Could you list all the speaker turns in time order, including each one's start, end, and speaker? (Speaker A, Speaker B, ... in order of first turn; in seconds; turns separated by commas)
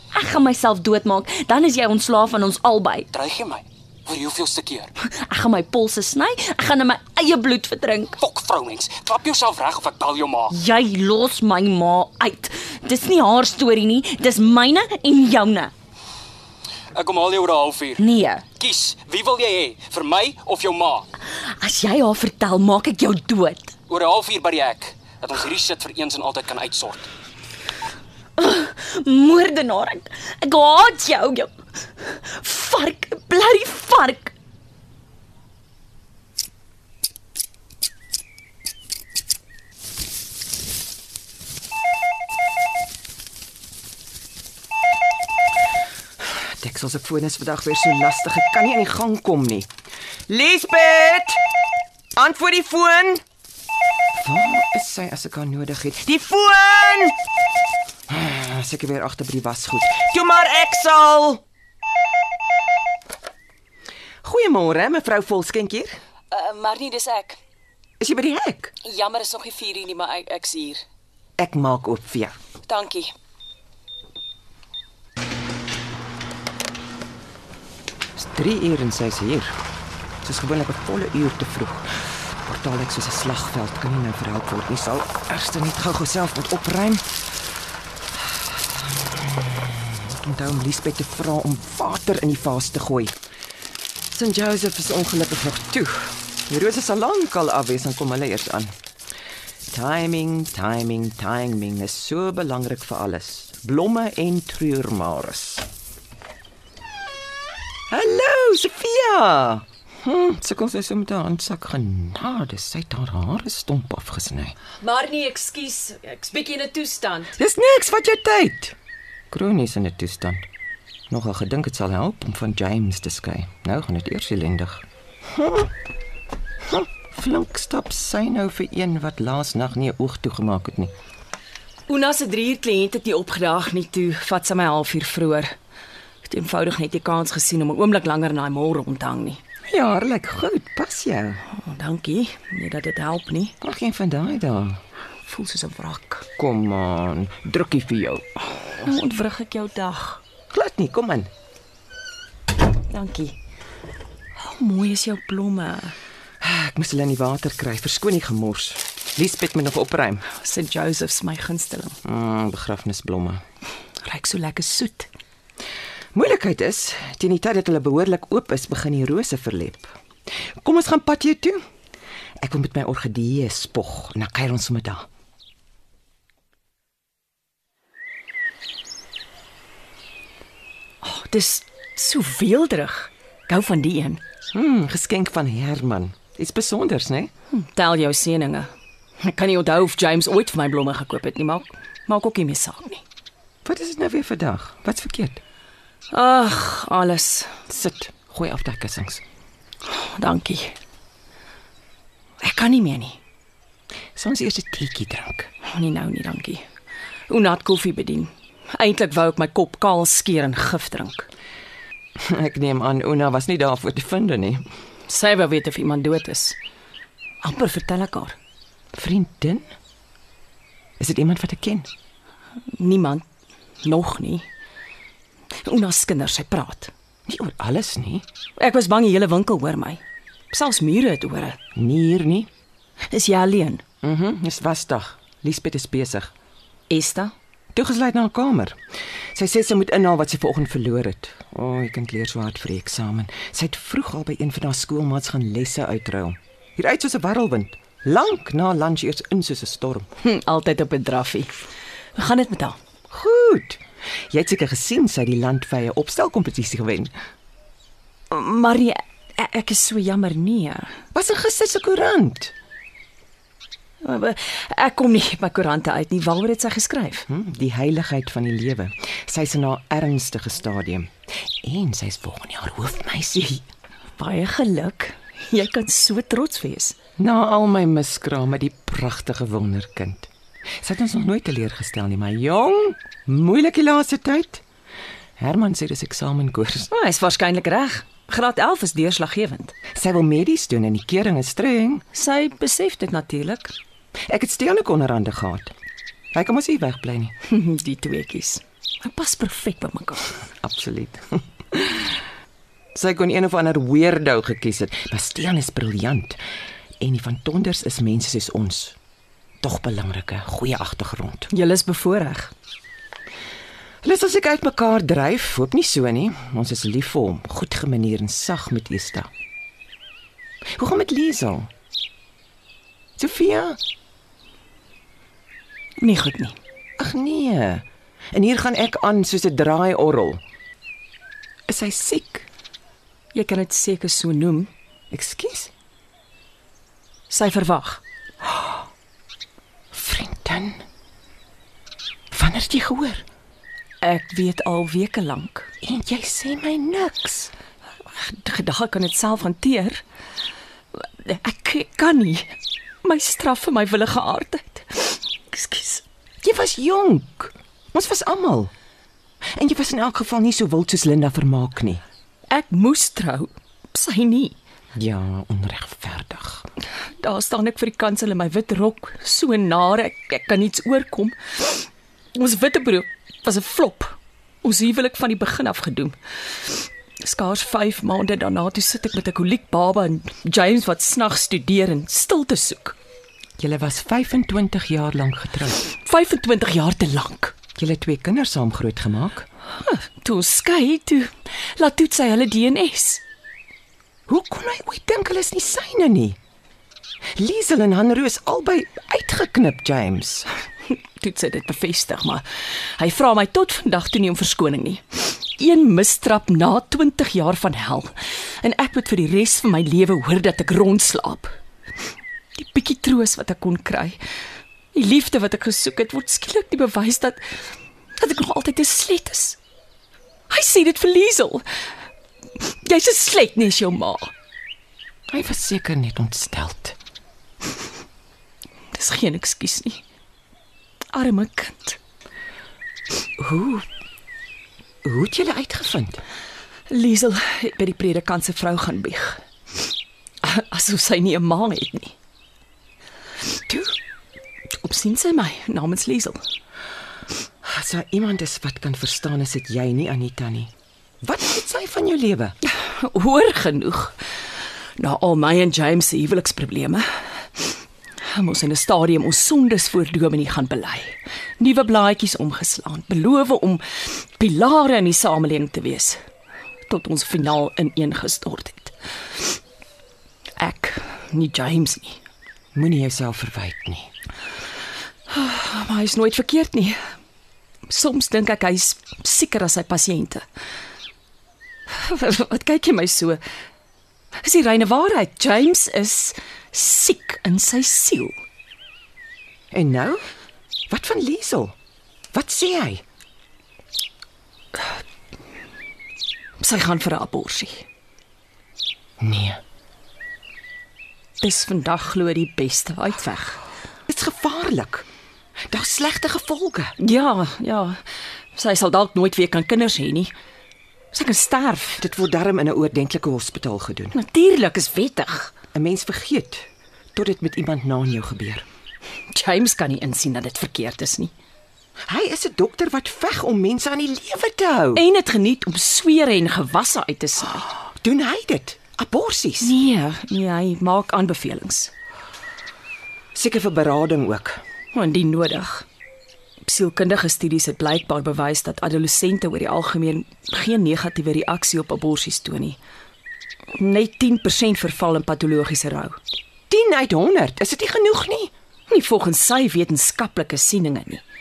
Speaker A: 0.1-3.1, Speaker B: 3.1-4.9, Speaker A: 5.1-8.2, Speaker B: 8.2-10.5, Speaker A: 10.5-15.7, Speaker B: 16.9-18.0, Speaker A: 18.0-18.4, Speaker B: 18.6-21.1, Speaker A: 21.4-23.7, Speaker B: 23.9-27.1, Speaker A: 28.4-34.3, Speaker C: 46.6-49.7, Speaker C: 50.3-51.4, Speaker C: 52.2-53.2, Speaker C: 54.1-57.2, Speaker C: 58.1-61.4, Speaker C: 64.2-66.0, Speaker D: 66.3-67.4, Speaker C: 68.0-68.7, Speaker D: 68.8-70.8, Speaker C: 71.4-72.4, Speaker D: 72.7-73.1, Speaker C: 78.2-79.6, Speaker C: 80.2-87.1, Speaker C: 88.2-93.2, Speaker C: 94.1-98.7, Speaker C: 99.7-105.7, Speaker C: 107.9-114.6, Speaker D: 114.8-117.4, Speaker C: 117.4-118.8, Speaker C: 119.3-120.5, Speaker C: 121.1-125.7, Speaker C: 126.6-130.9, Speaker D: 131.9-135.6, Speaker D: 136.2-139.4, Speaker C: 139.7-141.4, Speaker D: 141.5-143.6, Speaker C: 143.6-144.8, Speaker D: 145.3-146.3, Speaker C: 146.4-148.9, Speaker D: 148.8-150.2, Speaker C: 150.5-151.3, Speaker D: 152.9-153.4, Speaker D: 154.4-155.9, Speaker C: 156.4-160.2, Speaker D: 160.3-162.0, Speaker C: 162.0-163.4, Speaker D: 164.0-165.1, Speaker C: 166.1-169.9, Speaker C: 170.6-171.6, Speaker C: 172.4-175.1, Speaker D: 181.0-184.2, Speaker C: 184.5-187.3, Speaker D: 187.5-193.0, Speaker C: 193.7-195.4, Speaker D: 196.1-197.6, Speaker C: 197.7-199.2, Speaker D: 199.9-200.8, Speaker D: 202.4-203.2, Speaker C: 204.2-205.5, Speaker D: 205.7-206.7, Speaker D: 207.3-211.3, Speaker C: 212.2-214.7, Speaker D: 215.1-216.6, Speaker D: 217.4-218.4, Speaker C: 218.9-219.7, Speaker C: 221.0-221.9, Speaker D: 222.7-223.2, Speaker D: 223.8-224.5, Speaker D: 225.6-226.9, Speaker C: 227.3-228.2, Speaker D: 228.6-230.0, Speaker D: 230.5-231.6, Speaker C: 231.8-232.5, Speaker D: 233.1-233.8, Speaker C: 234.0-236.3, Speaker D: 236.9-237.3, Speaker C: 237.7-238.8, Speaker C: 239.3-250.1, Speaker D: 250.2-251.5, Speaker D: 252.2-252.8, Speaker C: 253.1-257.1, Speaker D: 258.3-261.0, Speaker C: 261.1-262.5, Speaker D: 264.0-267.3, Speaker C: 267.3-273.6, Speaker D: 274.2-277.0, Speaker C: 277.2-280.3, Speaker C: 280.8-284.6, Speaker C: 285.4-286.9, Speaker D: 286.9-289.8, Speaker C: 289.9-292.0, Speaker D: 292.1-293.7, Speaker C: 294.3-295.7, Speaker C: 296.3-297.3, Speaker D: 297.5-300.4, Speaker C: 300.6-302.2, Speaker C: 302.9-306.4, Speaker C: 307.0-309.0, Speaker C: 309.6-311.5, Speaker D: 311.5-312.5, Speaker C: 314.0-319.3, Speaker C: 320.8-321.7, Speaker C: 323.2-323.8, Speaker D: 326.0-326.6, Speaker C: 327.0-330.4, Speaker C: 331.7-332.5, Speaker D: 333.3-334.7, Speaker C: 335.1-335.7, Speaker D: 337.3-338.0, Speaker C: 338.5-338.7, Speaker C: 339.9-340.8, Speaker C: 342.3-343.2, Speaker D: 344.0-345.7, Speaker C: 345.8-347.5, Speaker D: 348.1-350.0, Speaker D: 350.9-352.5, Speaker D: 353.0-356.0, Speaker C: 356.4-358.7, Speaker C: 359.5-362.0, Speaker D: 362.5-364.6, Speaker C: 364.9-366.7, Speaker D: 367.2-383.0, Speaker C: 383.6-385.8, Speaker D: 386.0-387.6, Speaker C: 387.8-389.5, Speaker D: 389.8-393.2, Speaker C: 394.3-396.4, Speaker C: 397.4-400.5, Speaker D: 400.9-402.4, Speaker D: 403.0-411.6, Speaker D: 412.6-414.2, Speaker D: 414.9-417.4, Speaker D: 418.2-419.6, Speaker D: 420.5-421.6, Speaker D: 422.6-424.3, Speaker C: 425.3-427.0, Speaker D: 428.9-430.0, Speaker D: 431.1-432.0, Speaker C: 433.4-433.9, Speaker C: 435.0-436.2, Speaker D: 436.9-439.4, Speaker D: 440.4-442.1, Speaker C: 443.7-443.9, Speaker D: 444.8-446.4, Speaker C: 447.6-452.6, Speaker D: 452.8-454.2, Speaker D: 455.0-466.2, Speaker D: 466.9-469.5, Speaker D: 470.6-472.2, Speaker C: 472.7-474.1, Speaker D: 475.3-477.0, Speaker D: 477.9-480.4, Speaker D: 481.9-483.4, Speaker D: 484.4-488.4, Speaker C: 489.7-490.2, Speaker C: 490.9-491.8, Speaker C: 492.3-493.0, Speaker D: 496.6-497.9, Speaker C: 499.2-499.6, Speaker D: 501.4-503.6, Speaker C: 504.1-505.1, Speaker C: 505.7-506.9, Speaker D: 507.0-508.0, Speaker D: 508.6-510.3, Speaker D: 511.1-512.0, Speaker C: 512.0-514.2, Speaker D: 514.1-515.5, Speaker C: 515.7-518.7, Speaker D: 519.3-521.3, Speaker C: 522.1-525.0, Speaker D: 525.0-527.7, Speaker C: 528.0-529.8, Speaker D: 529.6-531.9, Speaker C: 533.4-534.6, Speaker D: 534.9-535.9, Speaker D: 536.6-542.8, Speaker D: 543.7-546.2, Speaker C: 546.7-548.5, Speaker D: 548.9-551.2